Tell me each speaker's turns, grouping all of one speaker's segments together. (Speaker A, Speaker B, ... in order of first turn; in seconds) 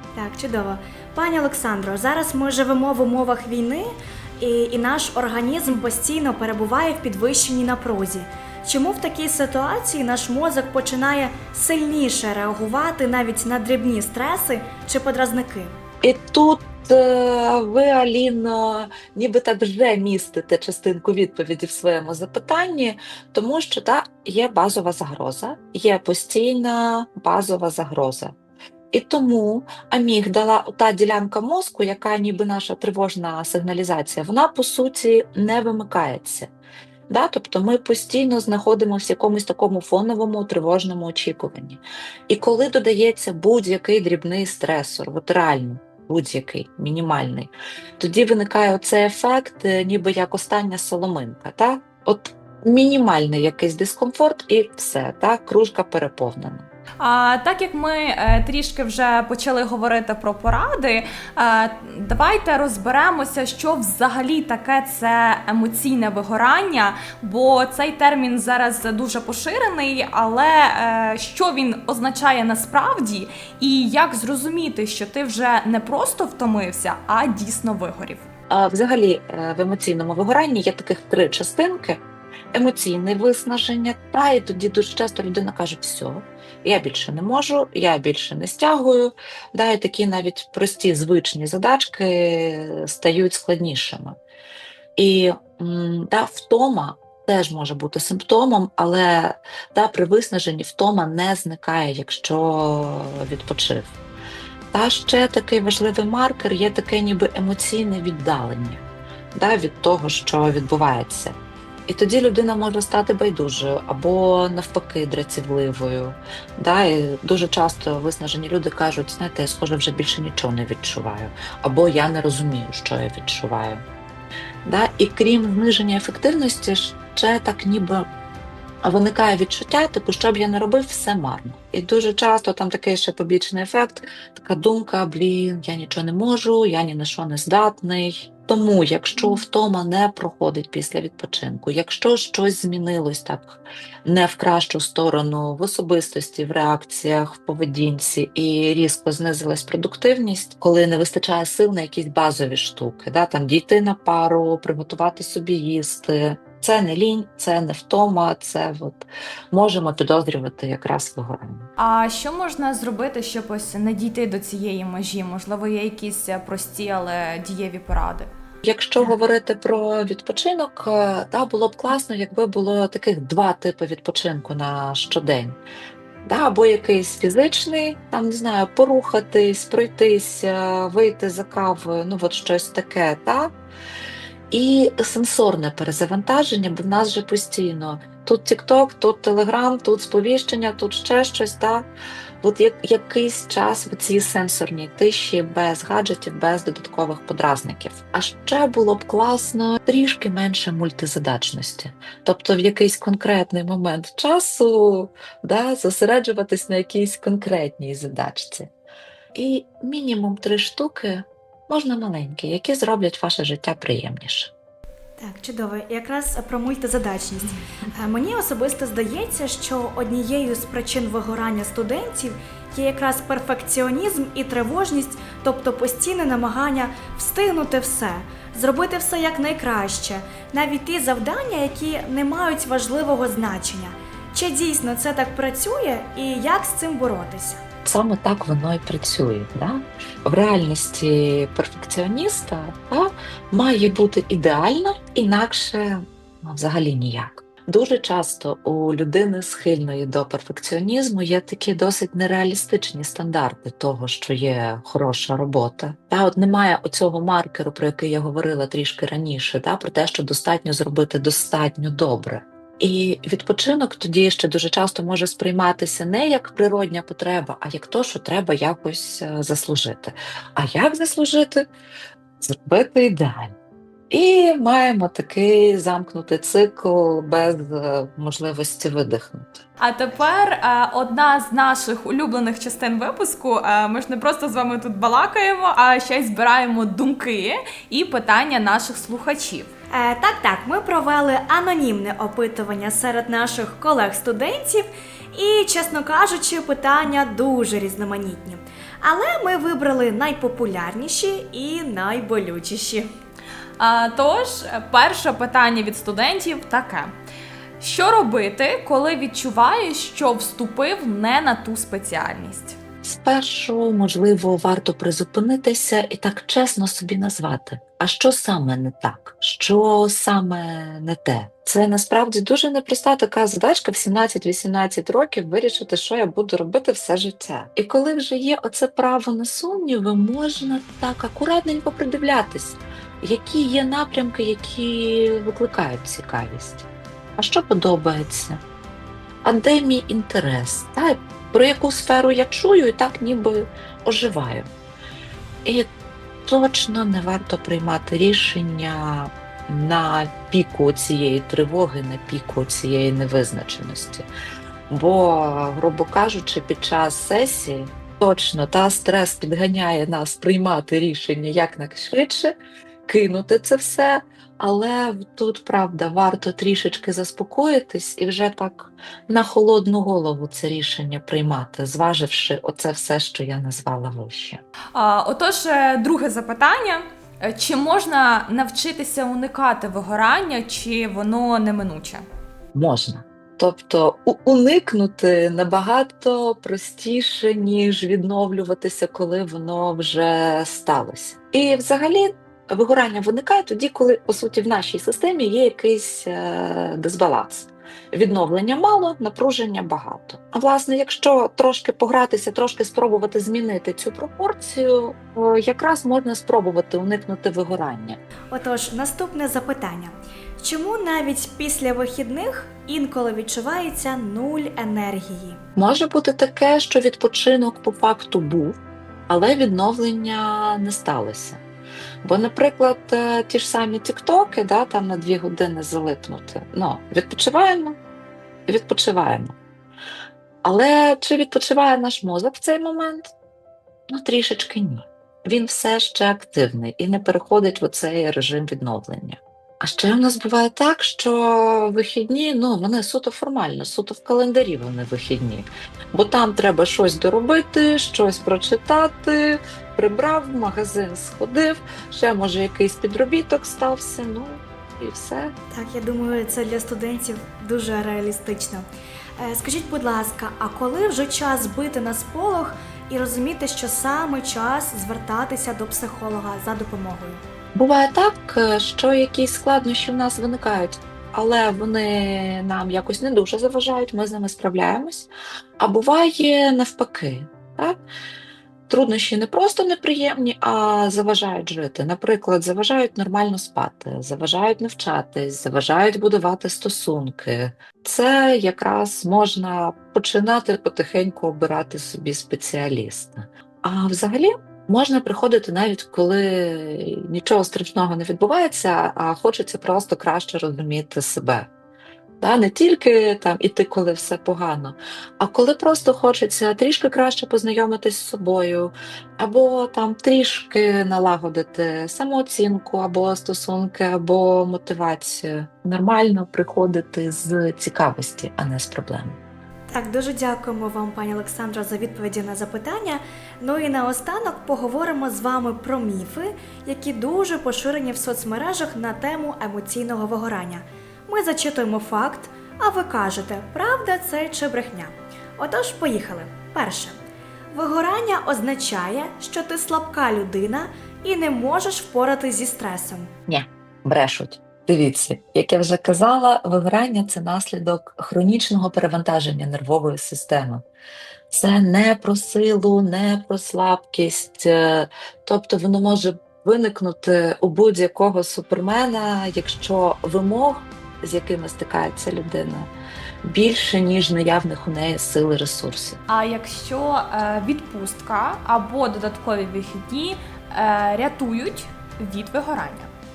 Speaker A: 0.1-15.7, 215.2-237.6, 289.9-303.1, 408.5-415.6, 455.7-458.8, 459.4-467.4, 519.9-537.1, 537.7-543.3
Speaker B: 16.0-28.4, 28.9-36.5, 37.1-56.7, 78.5-94.2, 95.0-104.0, 104.7-108.8, 109.3-111.3, 111.9-123.8, 124.6-128.1, 128.8-161.7, 168.6-175.6, 176.2-183.5, 184.5-191.9, 192.4-208.7, 209.3-214.5, 237.8-271.6, 272.4-273.5, 274.1-279.6, 313.0-338.6, 339.4-344.7, 346.4-354.3, 354.9-374.6, 382.7-408.2, 415.8-418.8, 419.3-421.6, 422.2-428.0, 428.7-429.5, 430.6-433.3, 434.1-455.5, 467.7-478.0, 478.9-501.7, 502.4-519.4, 543.5-550.8, 551.5-562.9, 563.4-566.2
Speaker C: 57.0-78.3, 161.8-168.3, 279.8-289.7, 303.8-307.1, 307.8-312.8, 374.9-382.2, 566.3-573.1